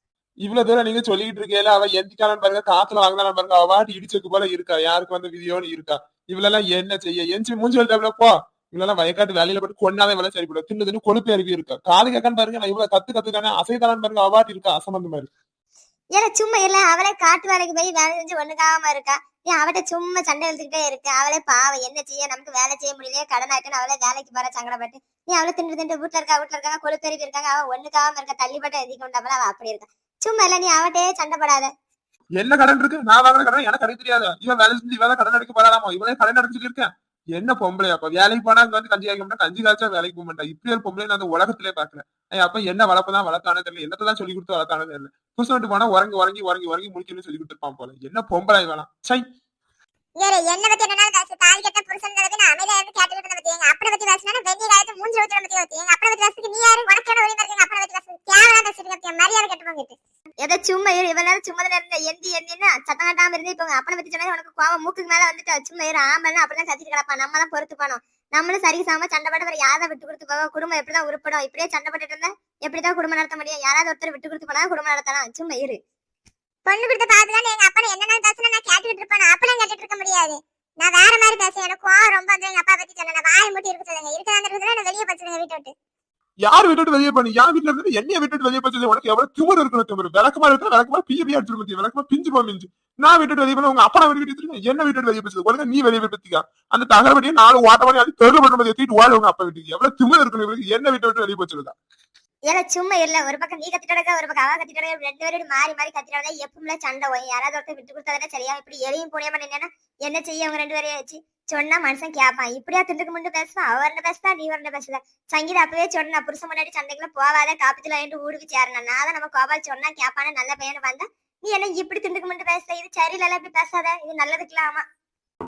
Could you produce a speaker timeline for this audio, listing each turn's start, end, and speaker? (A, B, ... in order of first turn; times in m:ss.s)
0:00.4-0:15.3 A
0:16.1-0:31.7 B
0:32.4-0:49.2 A
0:50.2-0:59.9 C
1:00.4-1:15.8 B
1:16.7-1:25.7 C
1:26.5-1:41.8 A
1:42.5-2:04.8 B